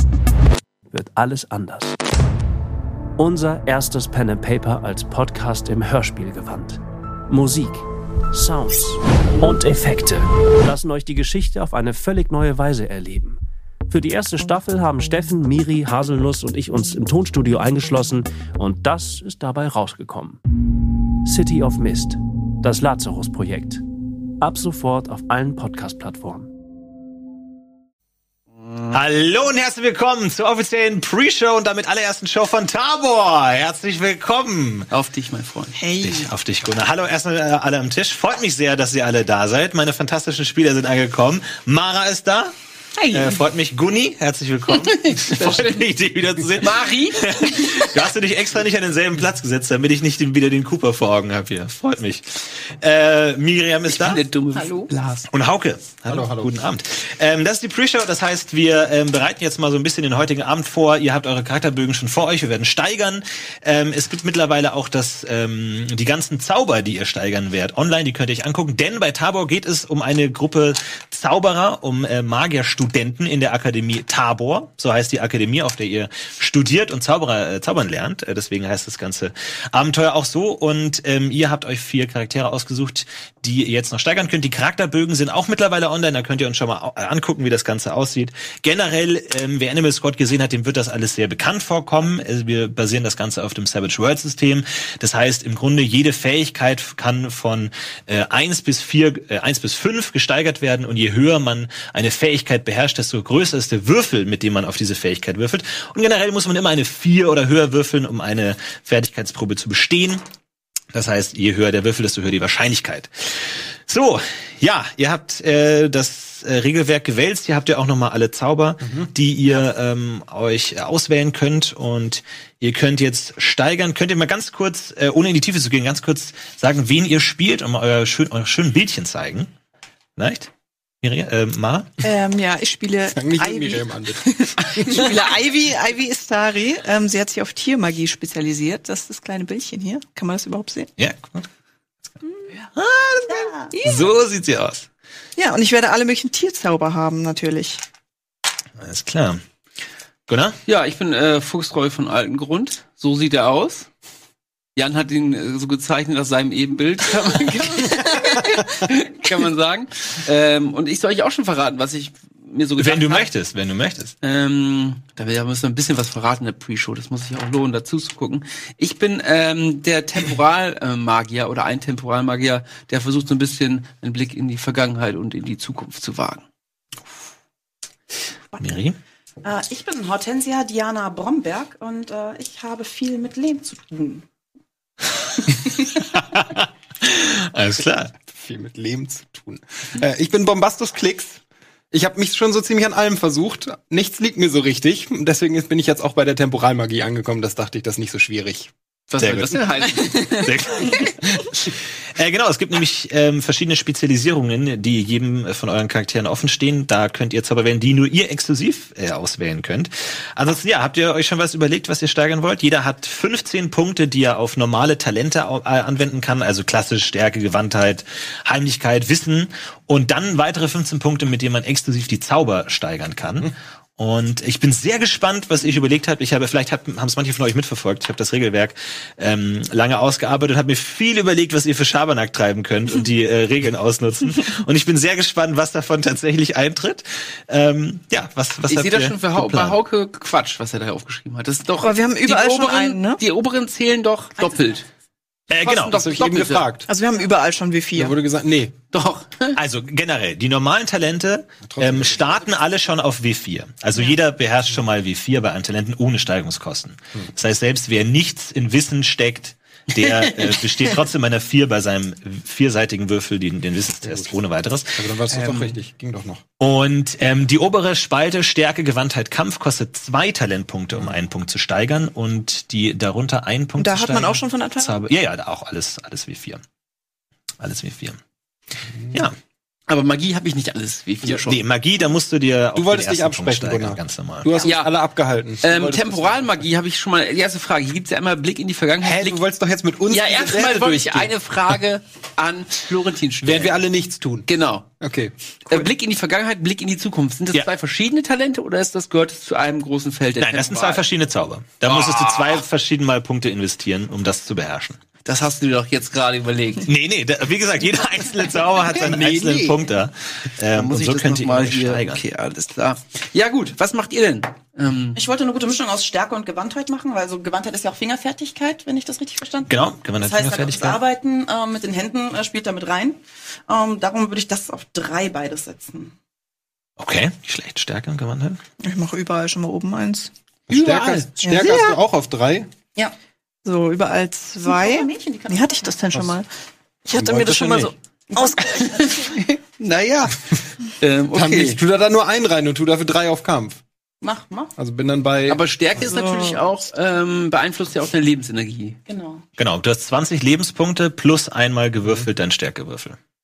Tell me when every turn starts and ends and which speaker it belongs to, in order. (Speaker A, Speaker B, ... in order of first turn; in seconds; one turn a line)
Speaker A: 0.9-2.0
Speaker A: 3.2-20.4
Speaker A: 21.2-23.8
Speaker A: 24.4-26.5
Speaker B: 28.9-34.9
Speaker C: 34.9-35.8
Speaker D: 35.8-36.3
Speaker B: 36.0-42.5
Speaker C: 43.0-43.4
Speaker B: 43.1-54.2
Speaker C: 44.8-45.9
Speaker C: 46.6-48.0
Speaker C: 53.9-55.2
Speaker E: 54.5-54.9
Speaker B: 55.3-110.2
Speaker F: 56.1-56.6
Speaker B: 110.9-129.5
Speaker F: 118.8-119.1
Speaker B: 130.2-131.9
Speaker D: 132.0-140.9
Speaker F: 133.1-135.1
Speaker B: 141.0-141.5
Speaker D: 142.3-142.7
Speaker B: 142.7-144.9
Speaker D: 143.7-144.1
Speaker D: 145.4-147.8
Speaker B: 148.8-149.4
Speaker B: 150.3-150.6
Speaker C: 150.7-153.9
Speaker C: 154.8-163.3
Speaker B: 162.8-164.1
Speaker C: 164.2-176.4
Speaker E: 178.5-178.8
Speaker B: 178.6-179.0
Speaker E: 179.4-184.2
Speaker B: 185.7-188.1
Speaker F: 188.3-198.7
Speaker C: 199.1-200.9
Speaker B: 199.2-239.8
Speaker C: 238.7-244.9
Speaker D: 241.8-243.2
Speaker B: 245.5-246.0
Speaker C: 245.5-246.7
Speaker F: 245.9-246.9
Speaker D: 246.9-248.2
Speaker F: 248.0-248.8
Speaker C: 248.9-249.6
Speaker B: 249.6-265.1
Speaker F: 251.7-252.3
Speaker C: 260.0-261.0
Speaker F: 265.0-266.4
Speaker C: 265.4-265.8
Speaker B: 266.6-276.6
Speaker D: 273.8-275.1
Speaker B: 277.6-278.2
Speaker C: 279.9-281.6
Speaker B: 281.5-284.6
Speaker F: 282.8-286.6
Speaker C: 284.6-284.9
Speaker C: 285.6-289.4
Speaker F: 289.0-291.3
Speaker C: 290.1-293.8
Speaker F: 293.4-294.5
Speaker C: 294.5-294.9
Speaker F: 295.0-295.9
Speaker C: 295.7-301.0
Speaker B: 300.4-305.0
Speaker C: 301.9-302.6
Speaker C: 305.2-306.9
Speaker B: 306.9-312.2
Speaker F: 308.9-309.8
Speaker C: 310.7-315.2
Speaker E: 315.2-326.1
Speaker B: 319.7-321.0
Speaker B: 327.0-328.6
Speaker D: 328.8-330.3
Speaker F: 330.7-332.7
Speaker C: 330.7-332.0
Speaker D: 331.4-331.7
Speaker D: 333.6-336.5
Speaker E: 334.6-335.9
Speaker F: 337.1-337.9
Speaker D: 337.1-338.9
Speaker E: 338.3-339.4
Speaker C: 338.6-341.8
Speaker F: 341.3-343.8
Speaker E: 344.2-344.7
Speaker F: 344.8-345.6
Speaker C: 345.5-349.0
Speaker D: 346.0-346.7
Speaker E: 349.1-349.4
Speaker B: 349.6-353.2